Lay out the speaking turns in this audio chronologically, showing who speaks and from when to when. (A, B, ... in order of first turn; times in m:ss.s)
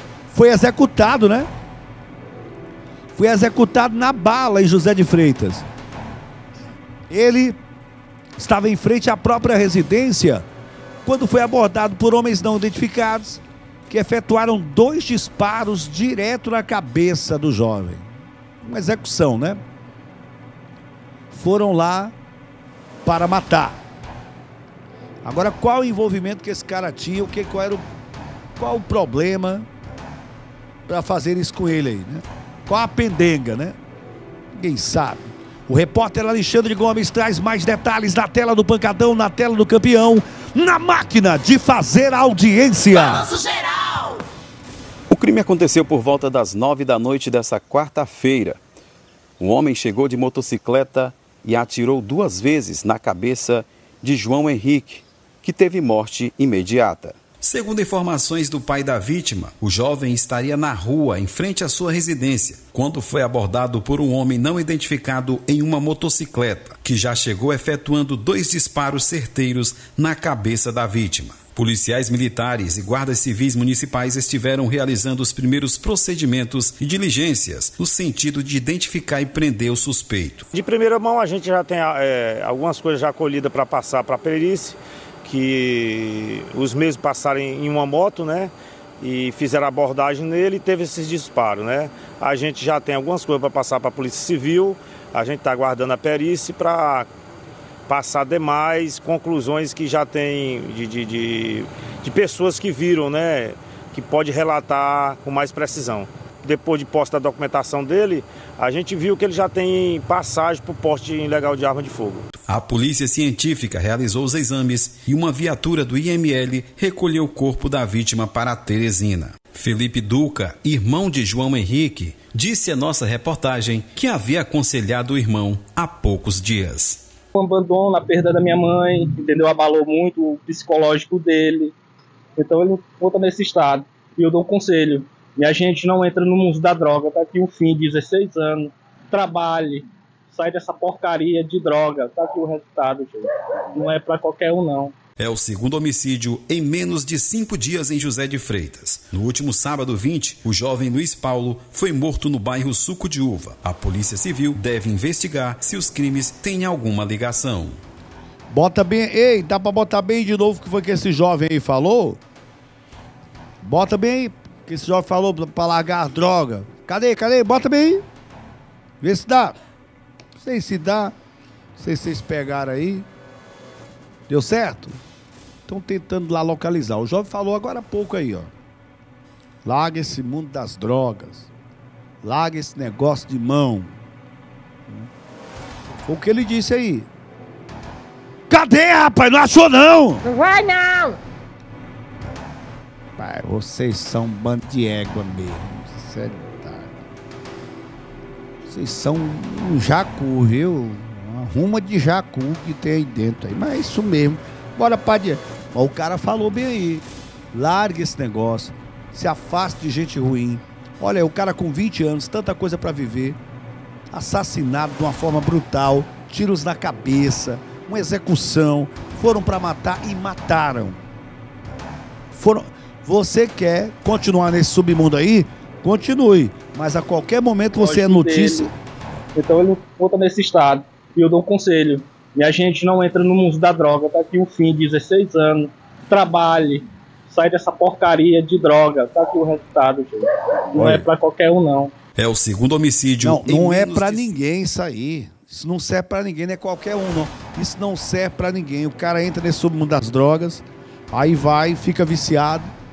0:00.3-0:01.5 A
0:03.1-0:05.6 A
0:07.1-0:07.6 A
0:08.4-0:10.4 A
0:11.0-0:18.0 A
0:18.6-0:19.6 A
0:21.3-0:22.1 A
0:23.0-0:23.8 A
0:25.2-0:27.8 A
0:28.6-0:29.7 A
0:30.9-0:33.8 A
0:34.5-0:43.4 A
0:45.1-0:48.6 B
0:49.4-1:20.5 B
1:20.5-1:37.1 C
1:37.9-1:52.3 C
1:52.5-2:07.0 B
2:07.3-2:11.8 D
2:12.4-2:24.9 D
2:25.2-2:37.8 B
2:38.5-2:42.2 A
2:43.6-2:48.0 A
2:49.0-2:49.6 A
2:50.4-2:51.1 A
2:51.8-2:53.1 A
2:54.3-2:55.0 A
2:55.7-2:58.5 A
2:59.6-3:01.5 A
3:02.2-3:04.0 A
3:06.0-3:07.1 A
3:08.5-3:11.1 A
3:13.2-3:16.9 A
3:18.7-3:33.4 A
3:34.1-3:41.0 A
3:42.3-3:48.7 A
3:47.8-3:48.7 D
3:49.4-4:01.9 D
4:00.8-4:01.1 A
4:02.2-4:04.3 B
4:03.2-4:12.7 A